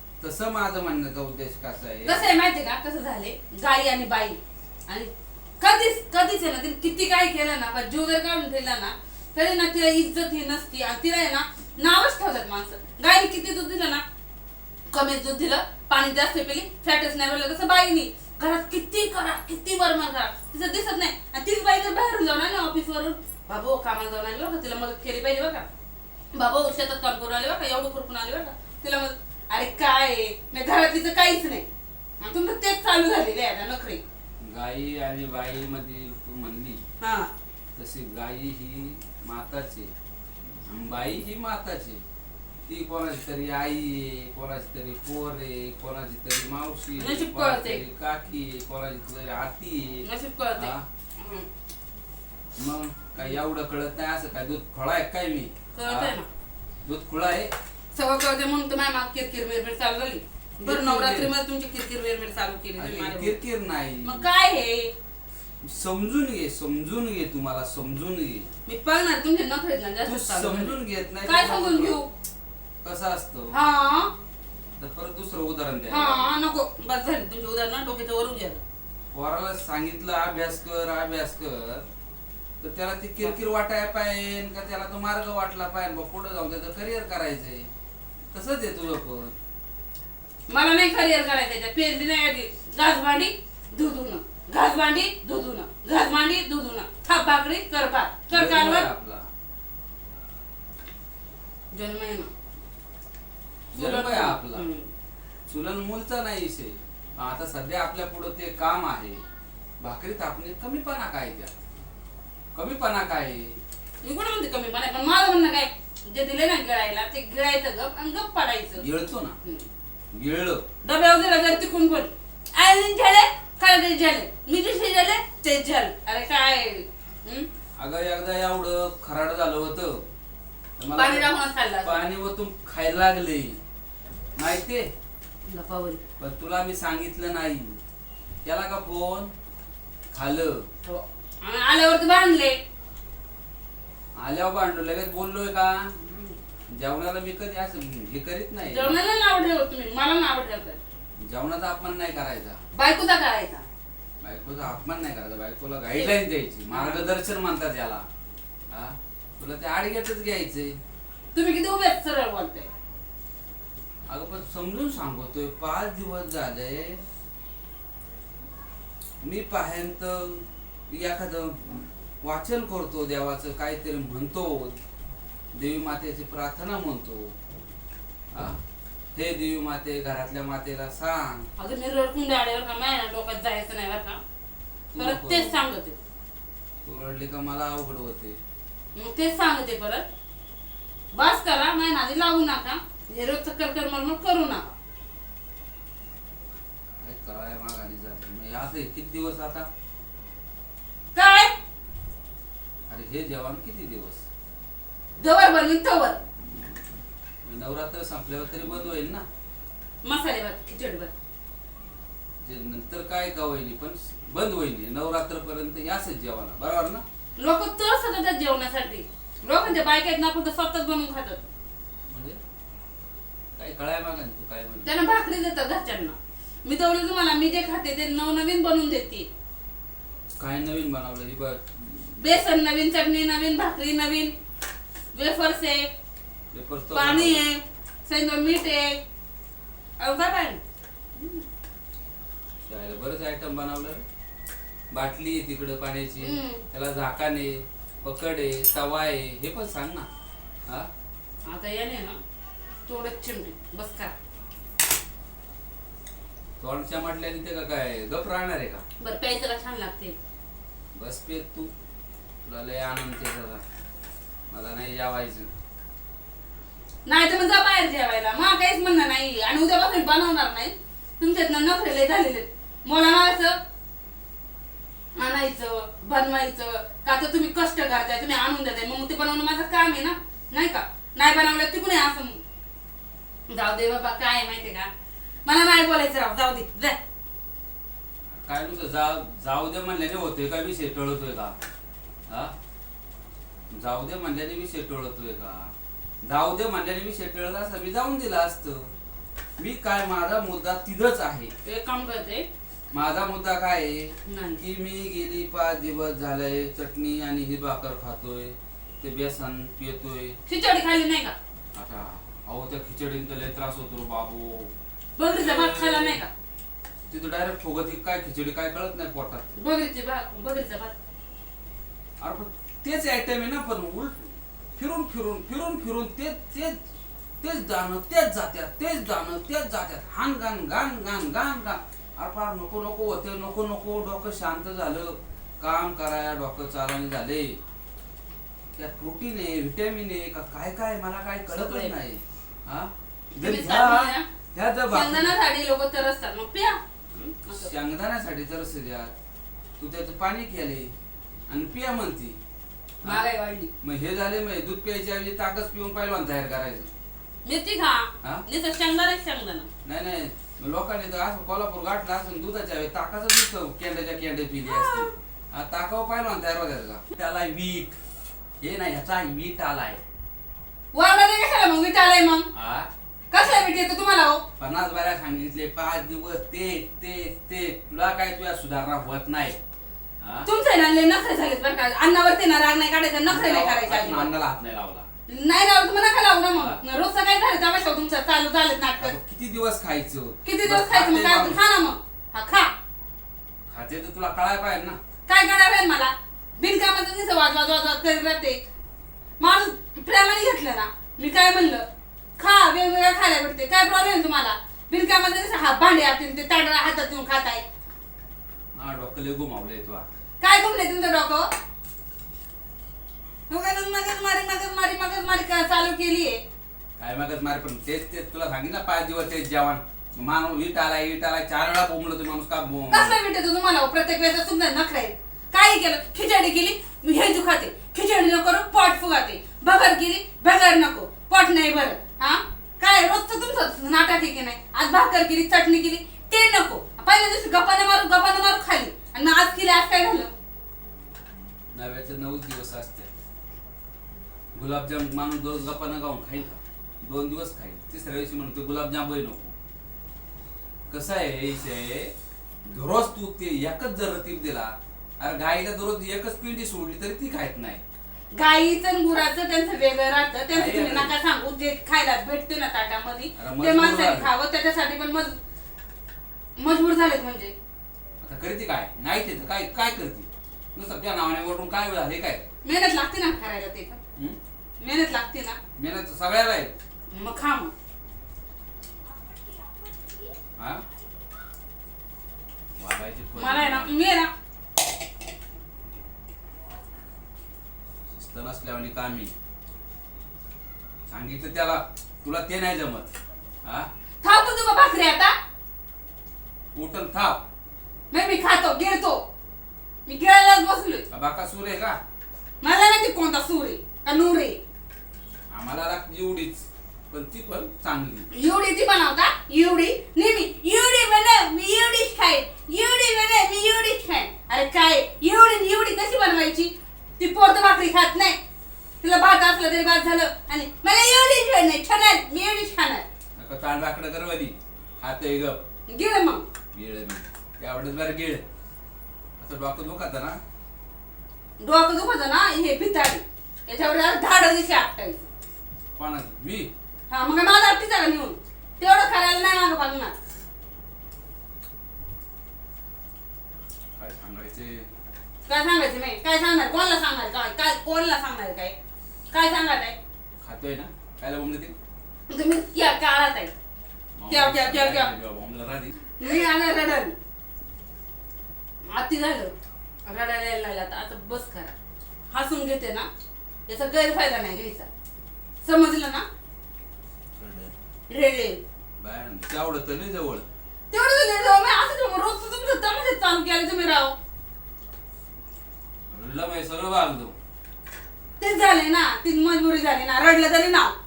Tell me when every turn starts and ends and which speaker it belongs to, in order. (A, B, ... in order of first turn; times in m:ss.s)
0:00.2-0:02.3 A
0:02.1-0:14.0 B
0:14.9-0:25.7 B
0:26.3-0:31.7 B
0:32.2-0:34.0 B
0:34.4-0:36.8 A
0:37.0-0:37.3 B
0:37.8-0:39.9 A
0:40.7-0:42.0 A
0:42.7-0:50.8 A
0:47.0-0:47.8 B
0:50.0-0:51.5 B
0:52.6-0:56.2 A
0:55.7-0:56.3 B
0:56.8-0:57.5 A
0:57.9-1:03.4 B
1:00.6-1:01.3 A
1:02.8-1:04.3 A
1:04.0-1:04.9 B
1:05.6-1:08.5 A
1:08.7-1:12.1 B
1:10.0-1:12.0 A
1:12.8-1:13.6 A
1:13.5-1:14.1 B
1:14.8-1:16.3 A
1:15.9-1:18.6 B
1:19.1-1:21.8 A
1:22.6-1:27.7 A
1:28.3-1:29.4 A
1:30.5-1:38.9 B
1:38.3-1:39.3 A
1:41.7-1:42.3 B
1:43.7-1:44.7 A
1:43.8-1:44.9 B
1:45.5-1:49.2 A
1:49.8-1:51.5 A
1:52.6-1:53.5 A
1:54.0-1:58.8 B
1:58.8-1:59.4 A
2:00.1-2:00.6 A
2:00.8-2:07.5 B
2:07.8-2:10.0 A
2:10.8-2:11.3 A
2:10.9-2:12.1 B
2:11.8-2:13.6 A
2:14.4-2:14.9 A
2:15.5-2:16.0 B
2:16.2-2:17.8 A
2:18.4-2:19.3 A
2:20.1-2:20.6 A
2:20.9-2:22.6 B
2:24.2-2:26.0 A
2:26.0-2:26.3 B
2:26.7-2:29.0 A
2:28.7-2:30.8 B
2:31.2-2:32.6 A
2:32.8-2:33.6 B
2:34.2-2:38.1 A
2:36.7-2:37.1 B
2:38.7-2:40.8 A
2:41.3-2:42.7 B
2:44.1-2:47.0 A
2:49.2-2:51.6 A
2:52.2-2:54.8 A
2:55.5-2:57.3 A
2:58.3-2:58.6 A
2:59.2-3:01.5 A
3:01.6-3:04.2 B
3:04.9-3:05.6 A
3:05.0-3:06.0 B
3:06.8-3:08.4 A
3:09.0-3:10.0 B
3:11.1-3:14.7 B
3:16.9-3:19.7 A
3:21.2-3:21.5 B
3:22.9-3:24.2 A
3:25.2-3:26.2 B
3:27.4-3:29.2 A
3:30.0-3:31.1 B
3:32.4-3:37.0 A
3:37.4-3:41.4 B
3:42.1-3:42.4 A
3:43.6-3:45.0 A
3:44.8-3:49.3 B
3:50.4-3:52.3 A
3:52.2-3:54.3 B
3:55.1-3:55.9 B
3:56.5-3:57.4 A
3:56.9-3:59.0 B
4:00.0-4:00.6 B
4:01.2-4:01.4 B
4:02.7-4:04.0 A
4:04.9-4:10.1 A
4:06.2-4:06.6 B
4:11.5-4:12.2 B
4:12.9-4:14.2 B
4:16.6-4:18.8 A
4:19.0-4:20.2 B
4:21.0-4:21.7 A
4:22.4-4:23.6 A
4:24.5-4:25.5 A
4:27.0-4:33.6 B
4:35.2-4:42.4 B
4:43.5-4:44.9 B
4:45.4-4:47.0 B
4:48.4-4:51.6 A
4:52.3-4:52.5 A
4:53.7-4:58.9 A
4:59.6-5:01.5 A
5:01.6-5:02.5 B
5:02.9-5:10.4 A
5:04.3-5:04.6 B
5:10.5-5:11.4 B
5:11.7-5:14.7 A
5:15.2-5:16.3 B
5:15.3-5:16.2 A
5:17.1-5:19.5 A
5:19.6-5:20.9 B
5:22.2-5:26.8 A
5:27.4-5:37.6 A
5:38.8-5:45.3 A
5:41.5-5:41.9 B
5:43.4-5:44.2 B
5:44.9-5:47.7 B
5:47.5-5:49.1 A
5:49.8-5:50.9 A
5:51.5-5:52.4 A
5:53.0-5:53.7 B
5:53.8-5:56.9 A
5:57.4-5:59.7 B
5:59.8-6:07.9 A
6:04.7-6:05.1 B
6:08.6-6:10.0 A
6:10.9-6:12.5 B
6:12.5-6:12.9 A
6:13.3-6:14.4 B
6:14.6-6:19.6 A
6:20.2-6:20.5 A
6:20.5-6:24.3 B
6:23.3-6:25.1 A
6:25.3-6:29.2 B
6:29.0-6:31.6 A
6:30.4-6:32.7 B
6:33.7-6:35.0 A
6:35.3-6:38.6 B
6:39.4-6:41.8 B
6:42.4-6:47.6 B
6:48.8-6:50.1 A
6:50.4-6:51.5 B
6:53.5-6:56.4 B
6:57.0-7:03.2 A
7:02.9-7:20.3 B
7:21.7-7:23.1 A
7:24.6-7:29.5 A
7:30.9-7:32.1 A
7:32.7-7:37.8 A
7:38.3-7:45.4 B
7:40.5-7:41.2 A
7:43.4-7:44.3 A
7:46.6-7:47.5 B
7:48.2-7:52.4 A
7:52.6-7:54.0 B
7:54.8-7:55.6 B
7:55.8-7:56.7 A
7:57.1-7:57.7 B
8:00.6-8:00.8 A
8:02.8-8:03.9 A
8:03.4-8:04.3 B
8:08.1-8:09.3 A
8:11.1-8:13.9 A
8:14.2-8:15.3 B
8:16.7-8:17.4 A
8:18.1-8:19.2 B
8:20.1-8:21.0 B
8:21.1-8:22.0 A
8:22.6-8:24.6 B
8:25.5-8:28.3 A
8:28.3-8:38.4 B
8:39.0-8:43.0 B
8:43.4-8:45.6 A
8:45.9-8:46.4 B
8:46.7-8:48.4 A
8:49.4-8:50.4 A
8:51.6-8:55.3 B
8:56.0-8:56.7 A
8:57.1-9:00.2 B
9:04.0-9:04.9 A
9:05.5-9:08.8 B
9:09.3-9:10.0 B
9:10.4-9:11.8 A
9:12.3-9:13.5 B
9:14.2-9:16.1 A
9:14.3-9:15.1 B
9:16.2-9:17.2 B
9:18.9-9:19.5 B
9:20.1-9:21.7 B
9:22.3-9:23.1 B
9:23.7-9:24.9 B
9:25.6-9:26.2 B
9:27.4-9:27.7 A
9:28.1-9:28.6 B
9:29.0-9:30.5 A
9:30.9-9:34.2 B
9:36.1-9:37.3 A
9:38.4-9:40.9 B